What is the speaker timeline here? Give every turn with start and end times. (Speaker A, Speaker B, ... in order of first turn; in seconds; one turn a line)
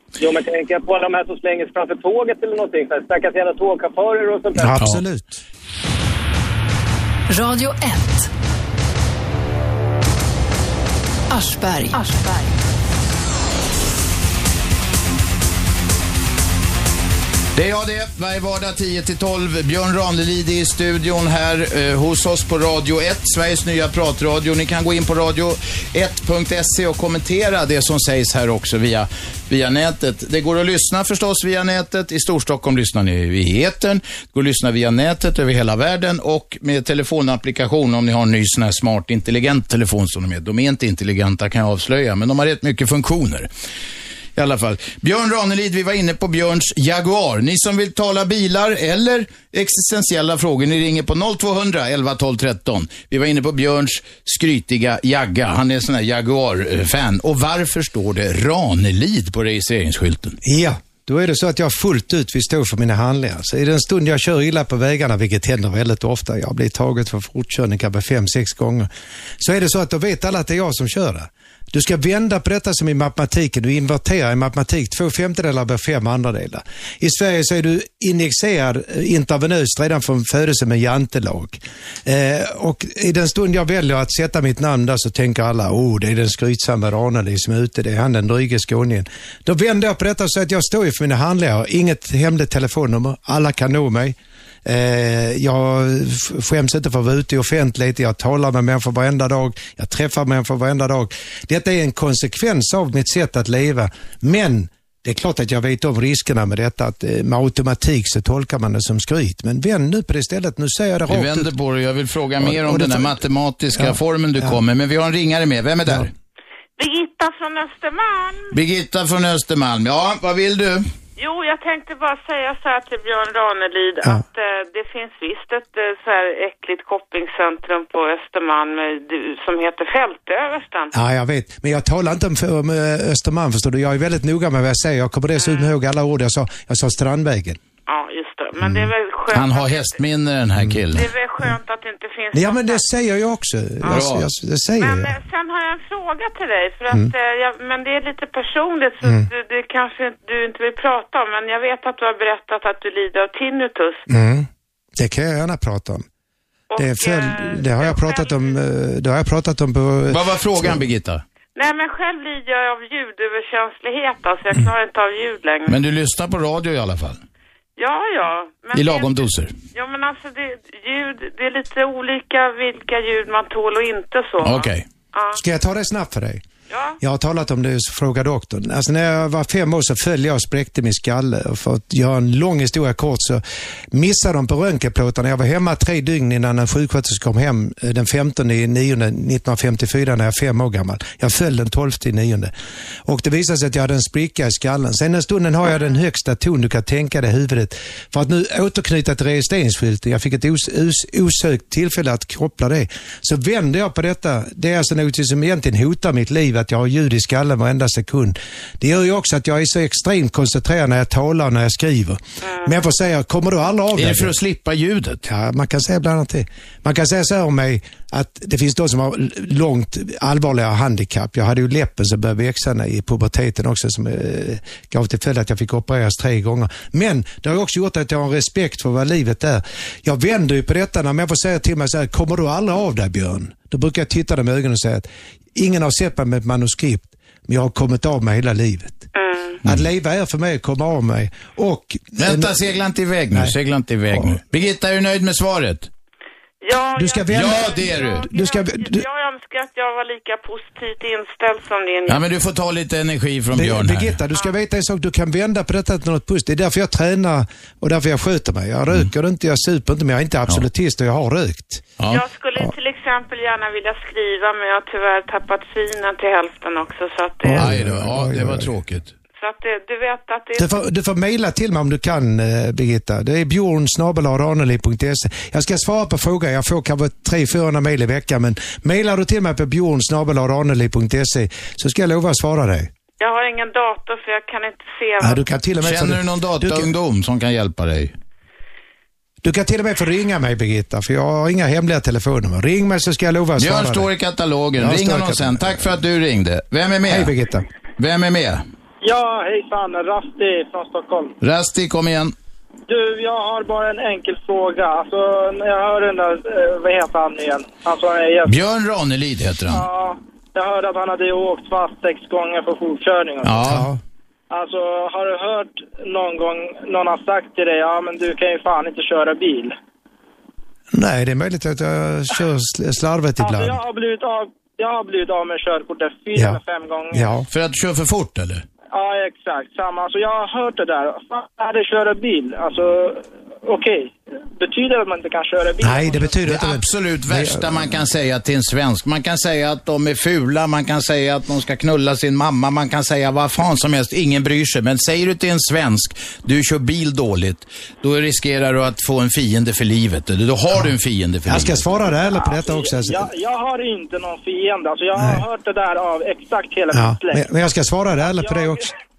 Speaker A: 0.2-4.7
Speaker B: 4.5-5.4
Speaker C: 7.3-8.3
Speaker C: 11.3-12.7
Speaker D: 17.5-43.5
Speaker D: 44.4-60.4
Speaker B: 60.4-68.9
Speaker B: 69.4-111.5
Speaker D: 111.1-116.1
Speaker B: 112.4-113.2
Speaker B: 113.7-114.6
Speaker E: 116.8-118.5
Speaker D: 118.5-120.8
Speaker E: 121.2-130.9
Speaker B: 130.9-137.6
Speaker E: 135.3-135.7
Speaker E: 137.9-140.0
Speaker B: 138.6-138.9
Speaker D: 139.3-141.1
Speaker E: 140.9-142.9
Speaker B: 142.3-145.2
Speaker E: 143.8-144.2
Speaker D: 143.9-144.3
Speaker E: 144.8-154.0
Speaker B: 149.0-149.3
Speaker B: 154.1-156.0
Speaker E: 156.7-158.5
Speaker B: 156.8-160.8
Speaker D: 160.1-161.2
Speaker E: 161.5-165.8
Speaker D: 165.7-167.2
Speaker E: 167.8-175.4
Speaker D: 168.7-169.5
Speaker D: 174.4-174.8
Speaker B: 175.3-176.4
Speaker E: 176.7-177.0
Speaker B: 177.0-192.5
Speaker B: 193.1-214.3
Speaker E: 212.5-212.7
Speaker D: 213.9-215.2
Speaker B: 215.2-239.1
Speaker E: 239.1-239.6
Speaker B: 239.6-242.6
Speaker D: 242.2-245.9
Speaker E: 246.6-252.2
Speaker B: 246.9-249.1
Speaker D: 247.3-248.3
Speaker D: 252.1-254.2
Speaker B: 253.5-261.9
Speaker D: 262.0-262.2
Speaker E: 262.1-267.8
Speaker B: 267.4-268.7
Speaker D: 267.5-269.1
Speaker E: 269.4-270.8
Speaker B: 270.6-282.9
Speaker E: 283.2-285.4
Speaker B: 285.2-286.9
Speaker D: 285.8-288.1
Speaker B: 289.4-294.1
Speaker D: 293.6-297.3
Speaker B: 294.8-296.0
Speaker B: 297.1-297.6
Speaker D: 298.0-298.6
Speaker F: 299.0-301.3
Speaker D: 301.4-302.3
Speaker F: 302.9-308.5
Speaker D: 308.4-309.8
Speaker F: 309.7-313.7
Speaker D: 313.4-313.9
Speaker B: 313.6-314.0
Speaker F: 314.5-319.8
Speaker B: 320.9-323.8
Speaker F: 323.4-327.3
Speaker B: 326.3-327.5
Speaker D: 327.5-328.6
Speaker F: 328.9-336.4
Speaker B: 335.8-338.0
Speaker D: 336.4-351.9
Speaker B: 351.4-353.3
Speaker F: 352.3-357.5
Speaker B: 355.1-355.4
Speaker B: 356.9-358.9
Speaker F: 358.2-358.9